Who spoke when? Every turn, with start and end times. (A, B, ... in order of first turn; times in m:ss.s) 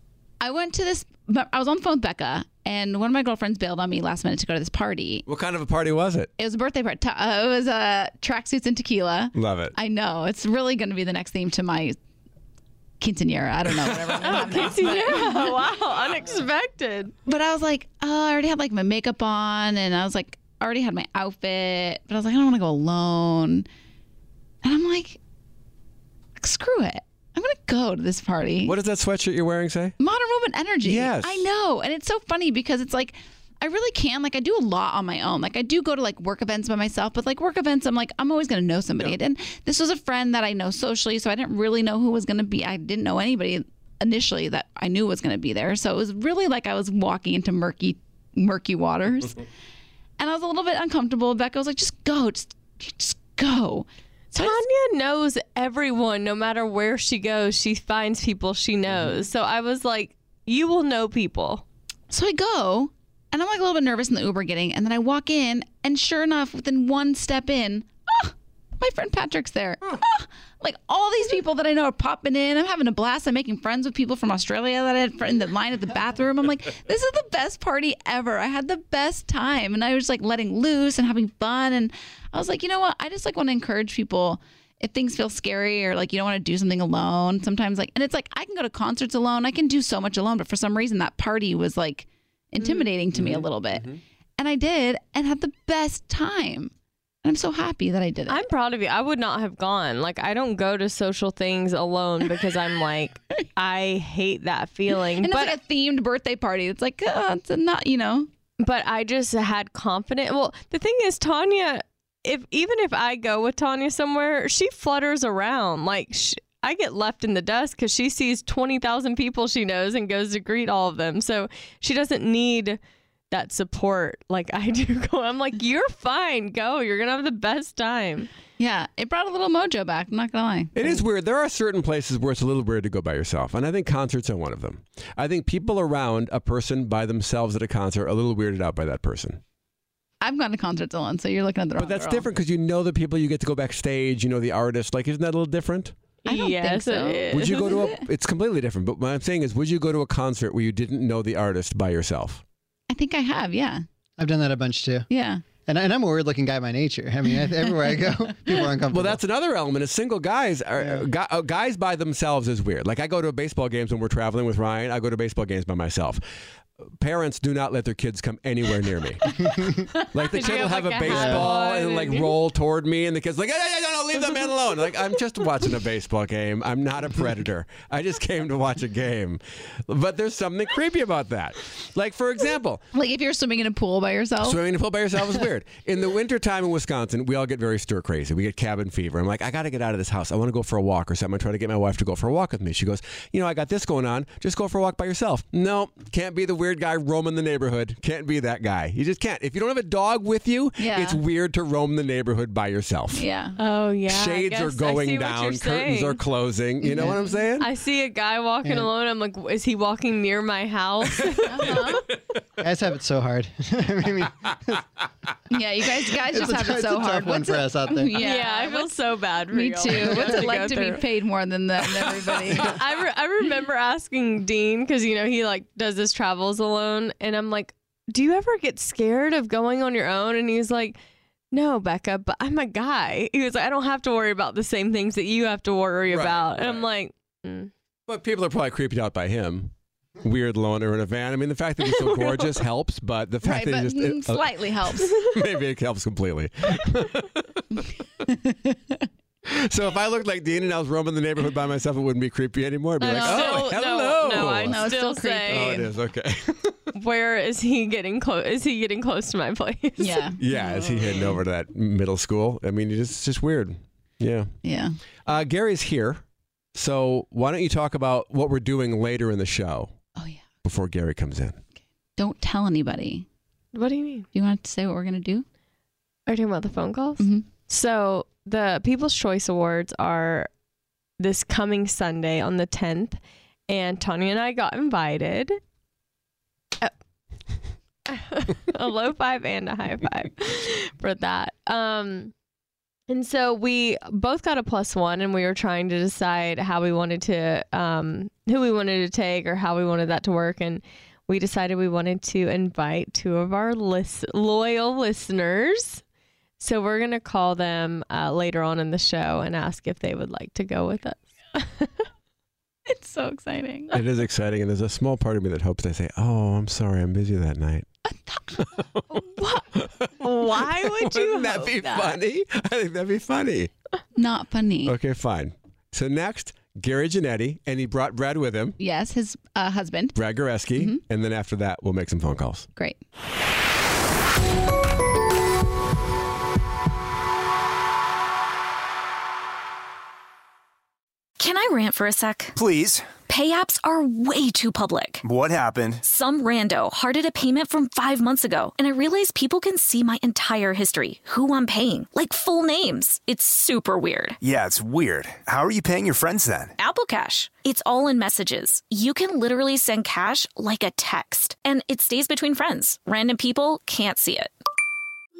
0:00.4-0:05.2 A
0:05.3-0:06.3 B
0:06.4-0:12.0 A
0:09.4-0:09.7 B
0:13.0-0:15.6 A
0:14.2-0:17.1 C
0:17.2-0:23.7 A
0:24.6-0:25.2 A
0:26.4-0:28.8 A
0:28.6-0:29.9 B
0:30.0-0:49.4 A
0:30.8-0:31.4 B
0:50.2-0:54.6 A
0:54.3-1:01.6 C
1:02.1-1:33.9 A
1:32.6-1:32.9 C
1:33.1-1:33.9 B
1:34.4-1:36.7 A
1:37.2-1:38.4 A
1:38.3-1:45.6 C
1:45.2-1:48.3 A
1:48.6-2:02.8 C
2:03.3-2:08.3 C
2:08.6-2:11.0 A
2:10.8-2:19.4 B
2:20.2-2:22.2 A
2:21.8-2:26.0 B
2:26.2-2:27.7 C
2:26.2-2:28.0 A
2:27.3-2:32.4 B
2:32.9-2:33.8 A
2:34.2-2:35.1 D
2:35.1-2:35.4 A
2:35.6-2:39.2 D
2:38.9-2:46.2 B
2:47.0-2:49.2 B
2:50.1-3:02.8 B
2:50.3-2:52.3 C
2:51.0-2:51.4 D
3:02.9-3:04.6 A
3:04.4-3:23.2 B
3:20.8-3:21.2 A
3:23.1-3:23.6 A
3:23.6-3:26.2 C
3:24.1-3:27.7 B
3:26.8-3:27.2 A
3:27.6-3:31.9 C
3:31.5-3:32.0 A
3:32.6-3:34.7 D
3:35.5-3:38.9 A
3:36.3-3:38.1 D
3:38.2-3:41.0 C
3:39.5-3:42.8 A
3:42.6-3:51.0 C
3:51.5-3:57.7 C
3:56.1-3:56.8 B
3:58.1-4:07.8 B
4:01.8-4:02.5 C
4:03.4-4:05.2 A
4:08.3-4:09.0 A
4:09.5-4:14.9 B
4:13.0-4:15.8 C
4:13.0-4:13.8 A
4:14.4-4:15.9 A
4:15.5-4:16.8 B
4:16.9-4:20.3 C
4:20.0-4:21.4 A
4:20.4-4:24.5 B
4:24.6-4:25.0 A
4:25.2-4:26.2 B
4:26.8-4:29.9 B
4:30.2-4:30.4 A
4:30.6-4:31.6 B
4:32.2-4:33.2 A
4:33.7-4:34.3 C
4:34.3-4:35.4 A
4:36.3-4:40.5 C
4:37.2-4:37.5 A
4:41.2-4:45.6 C
4:48.1-4:52.3 C
4:53.1-5:06.0 C
5:06.6-5:12.0 C
5:12.9-5:14.0 A
5:13.9-5:17.8 B
5:18.0-5:18.6 A
5:19.1-5:19.7 C
5:19.8-5:23.7 B
5:20.2-5:22.2 C
5:24.2-5:24.9 A
5:24.8-5:28.8 B
5:28.8-5:30.2 A
5:30.2-5:32.7 B
5:30.8-5:31.0 A
5:41.4-5:42.5 E
5:42.6-5:43.1 F
5:43.3-5:45.2 E
5:45.2-5:46.0 F
5:46.0-5:54.4 E
5:54.4-5:56.8 F
5:56.8-6:04.5 E